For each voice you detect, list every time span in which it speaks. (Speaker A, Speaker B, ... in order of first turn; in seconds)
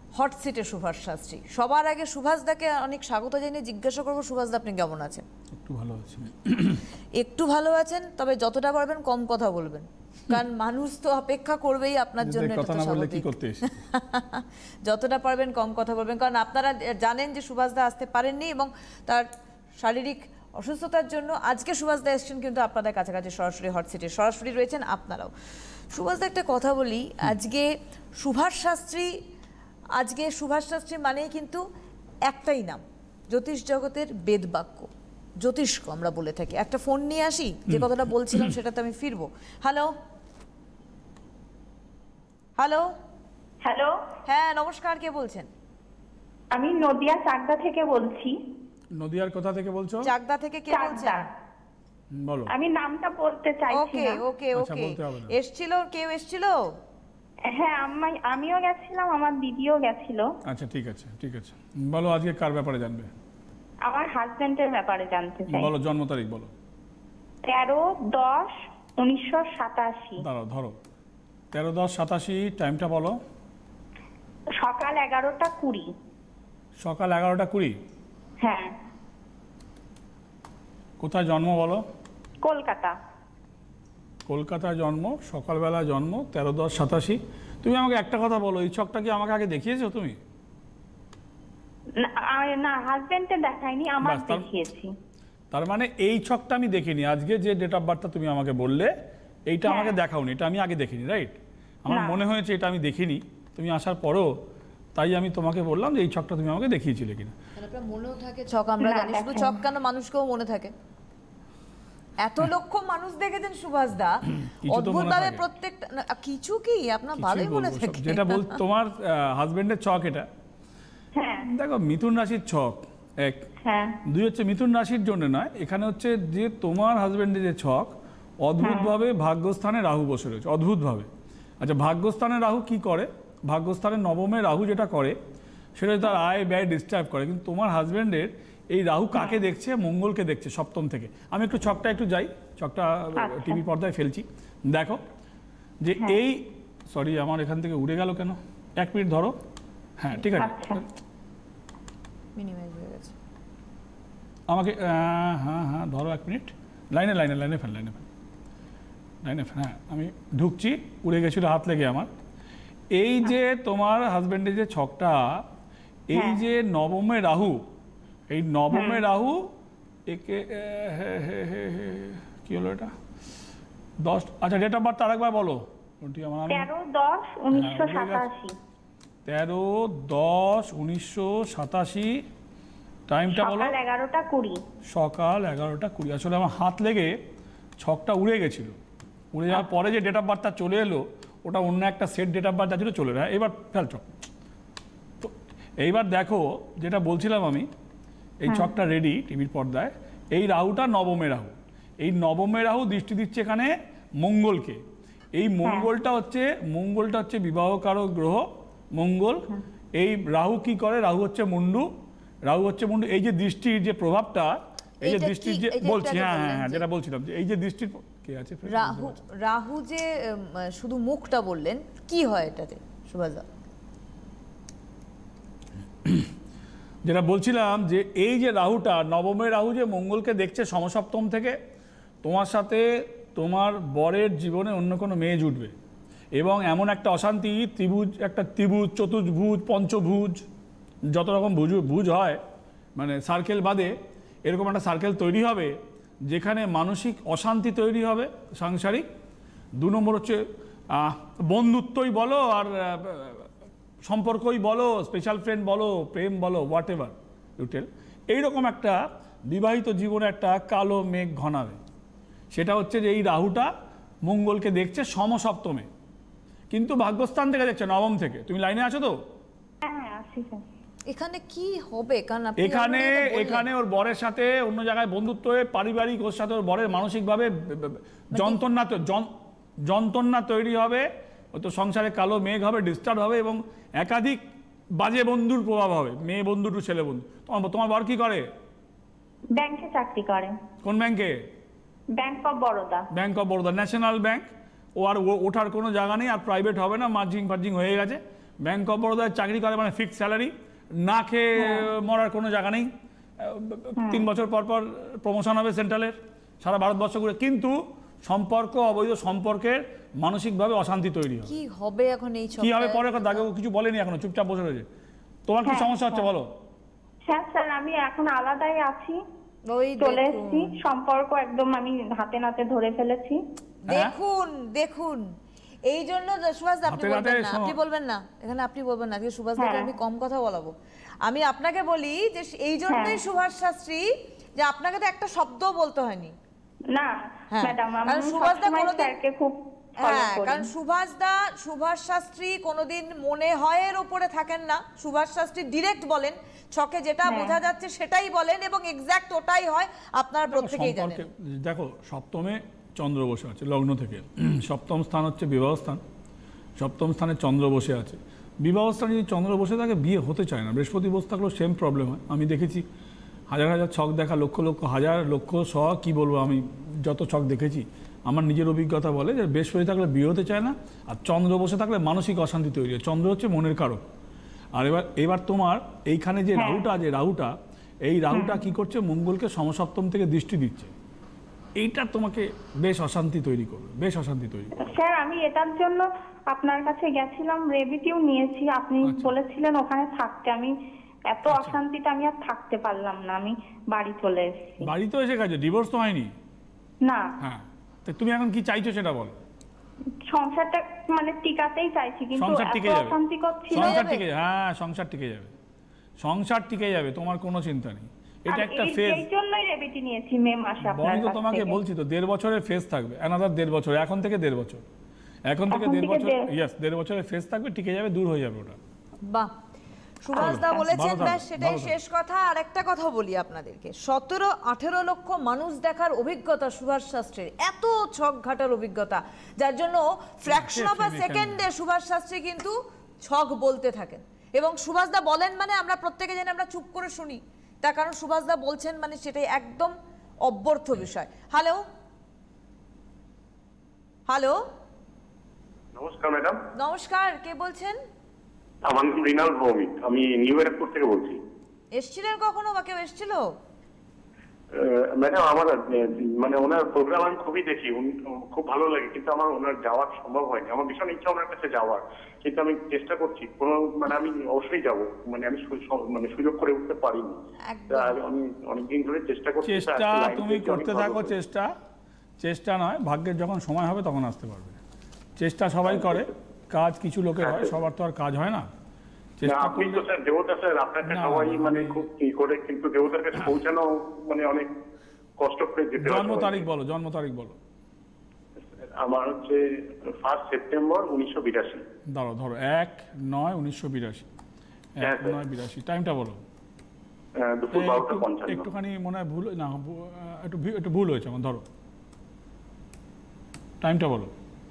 Speaker A: 0.2-5.2, 7.2-19.3, 19.8-25.3, 25.9-29.1, 30.0-31.6, 32.3-34.9, 35.4-39.9, 42.6-42.9, 44.3-45.5, 50.0-51.2, 53.7-56.7, 107.5-110.7, 112.2-118.6, 152.3-153.2, 215.0-216.8, 218.7-223.4, 271.1-273.7, 278.3-278.6, 311.5-313.4, 319.7-320.7, 323.9-325.2, 325.9-330.7, 331.2-334.1, 334.6-336.3, 337.5-339.1, 340.0-351.2, 403.7-404.2, 419.2-419.5, 420.2-432.7, 433.3-439.9, 440.4-441.8, 444.3-444.6, 446.8-448.0, 451.9-453.5, 467.7-468.2
Speaker B: 5.5-6.8, 12.2-13.8, 48.9-50.1, 52.1-52.5, 54.5-55.3, 60.5-63.1, 65.5-66.5, 70.2-70.8, 71.5-73.2, 76.8-77.7, 81.0-81.8, 84.3-90.2, 94.0-94.5, 95.5-98.9, 99.5-104.3, 104.9-107.3, 114.4-115.4, 117.1-120.3, 121.4-123.4, 124.0-135.2, 135.8-145.0, 145.8-149.4, 150.0-150.9, 154.5-158.1, 159.2-162.1, 162.9-165.4, 166.1-167.7, 168.3-169.5, 170.1-172.9, 174.0-176.7, 177.5-178.3, 179.2-182.2, 183.1-183.8, 184.9-187.2, 187.8-188.8, 189.3-194.1, 195.2-197.7, 198.4-204.8, 205.3-211.9, 212.4-219.2, 226.0-226.3, 227.0-231.6, 232.2-235.7, 236.3-240.4, 241.1-242.4, 243.0-243.9, 244.4-245.7, 246.3-249.1, 249.8-253.5, 254.1-261.8, 262.5-263.7, 264.2-265.9, 266.7-269.2, 272.6-279.3, 279.8-284.4, 284.9-288.5, 290.8-291.4, 293.1-311.5, 312.6-314.9, 315.5-316.5, 323.9-324.1, 326.9-327.8, 350.5-356.0, 356.8-362.9, 363.5-374.0, 374.8-377.5, 378.1-380.9, 381.8-384.7, 389.0-389.3, 391.5-391.8, 394.8-396.3, 397.4-399.4, 402.4-403.2, 403.7-405.5, 406.2-409.3, 410.8-414.8, 415.5-418.8, 420.3-421.9, 430.4-431.6, 469.6-471.7, 472.4-474.8, 475.4-478.7, 479.4-480.1, 481.0-482.1, 486.0-487.6, 492.1-494.3, 495.0-496.4, 497.7-501.6, 503.8-504.3
Speaker C: 43.6-43.9, 46.5-48.4, 50.7-51.2, 52.5-54.2, 57.5-60.3, 63.9-65.7, 67.4-70.2, 74.6-75.9, 78.4-78.7, 82.4-82.9, 92.0-94.9, 99.7-100.0, 101.9-102.2, 108.8-109.6, 121.2-121.5, 123.6-124.0, 128.6-128.9, 143.2-143.6, 150.4-150.8, 166.1-166.4, 168.7-169.0, 176.5-178.5, 183.3-184.6, 269.8-270.6, 289.5-290.6, 292.2-293.1, 301.6-301.9, 304.0-304.2, 315.6-316.2, 317.2-319.2, 320.0-323.4, 329.6-329.9, 332.9-333.2, 336.9-340.7, 347.2-347.5, 376.6-376.8, 378.3-378.6, 384.8-390.7, 391.3-394.9, 397.0-397.3, 400.3-404.0, 408.5-411.8, 415.7-416.5
Speaker D: 445.9-446.6, 448.8-451.4, 454.7-471.3, 476.0-476.3, 477.4-477.7, 479.4-484.7, 485.4-486.6, 488.8-491.8, 495.0-495.4, 497.4-498.6